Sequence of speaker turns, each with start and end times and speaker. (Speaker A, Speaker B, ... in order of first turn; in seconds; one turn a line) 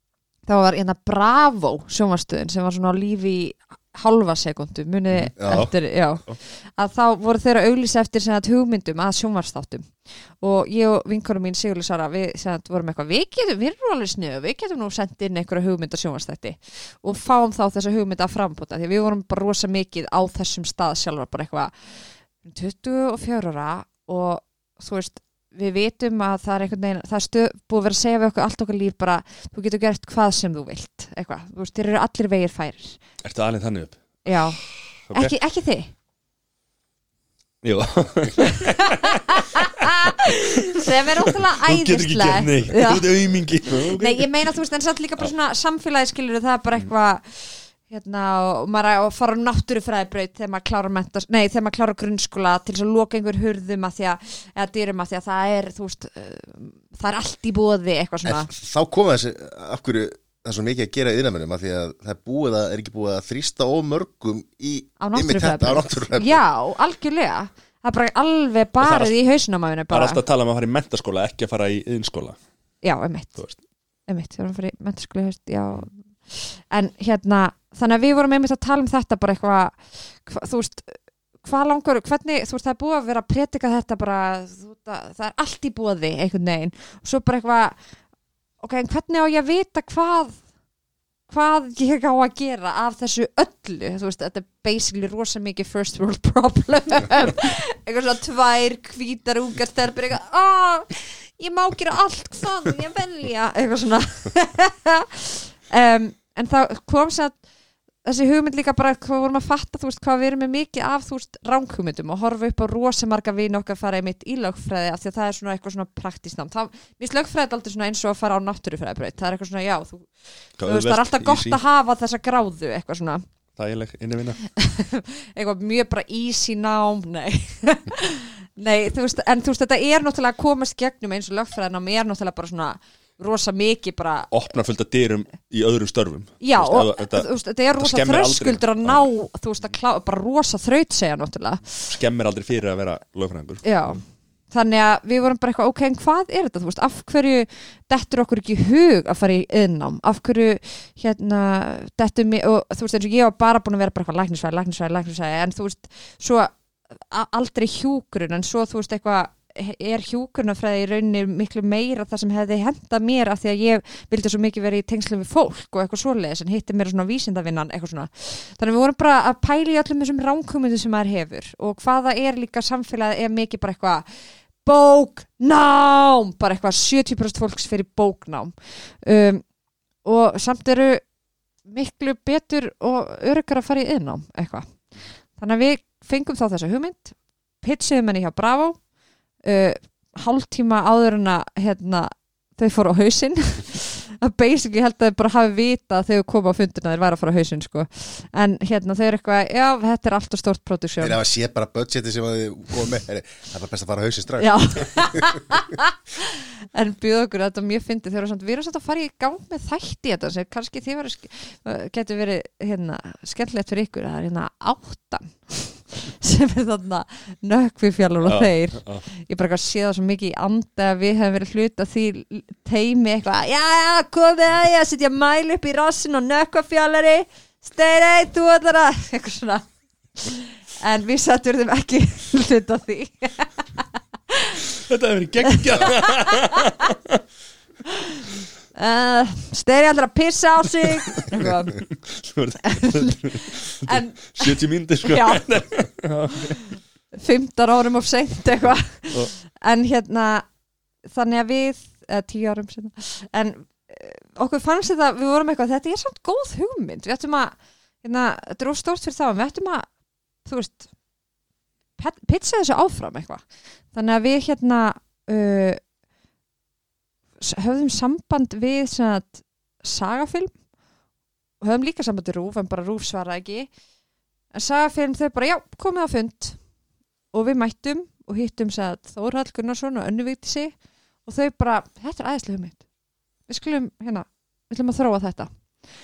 Speaker A: 0.5-33.0
Speaker B: 5.1-5.7
Speaker C: 5.4-5.7
Speaker B: 33.2-34.0
Speaker A: 34.2-35.9
Speaker B: 34.6-35.4
Speaker B: 37.6-44.3
Speaker A: 38.4-43.0
Speaker A: 43.9-58.5
Speaker C: 58.2-66.4
Speaker A: 65.0-70.2
Speaker B: 68.8-69.2
Speaker B: 69.9-72.4
Speaker A: 72.8-73.4
Speaker A: 74.1-87.8
Speaker A: 88.6-90.4
Speaker A: 91.3-107.4
Speaker A: 108.0-120.1
Speaker B: 120.6-121.6
Speaker A: 120.6-123.2
Speaker B: 123.6-124.4
Speaker A: 124.5-134.3
Speaker B: 134.3-139.1
Speaker A: 136.4-141.9
Speaker B: 141.8-144.0
Speaker A: 143.6-179.4
Speaker A: 180.0-181.0
Speaker A: 181.7-184.7
Speaker A: 185.4-188.8
Speaker A: 189.4-201.2
Speaker C: 201.0-205.3
Speaker A: 204.4-234.6
Speaker B: 218.2-219.1
Speaker B: 234.8-237.2
Speaker A: 235.5-236.5
Speaker A: 238.7-241.8
Speaker B: 241.3-246.6
Speaker A: 242.7-245.4
Speaker A: 246.4-250.4
Speaker A: 251.0-259.9
Speaker A: 260.4-260.8
Speaker A: 262.0-265.8
Speaker A: 267.4-270.5
Speaker A: 271.6-273.7
Speaker A: 274.5-276.6
Speaker A: 277.3-280.7
Speaker A: 281.2-282.8
Speaker A: 283.5-285.5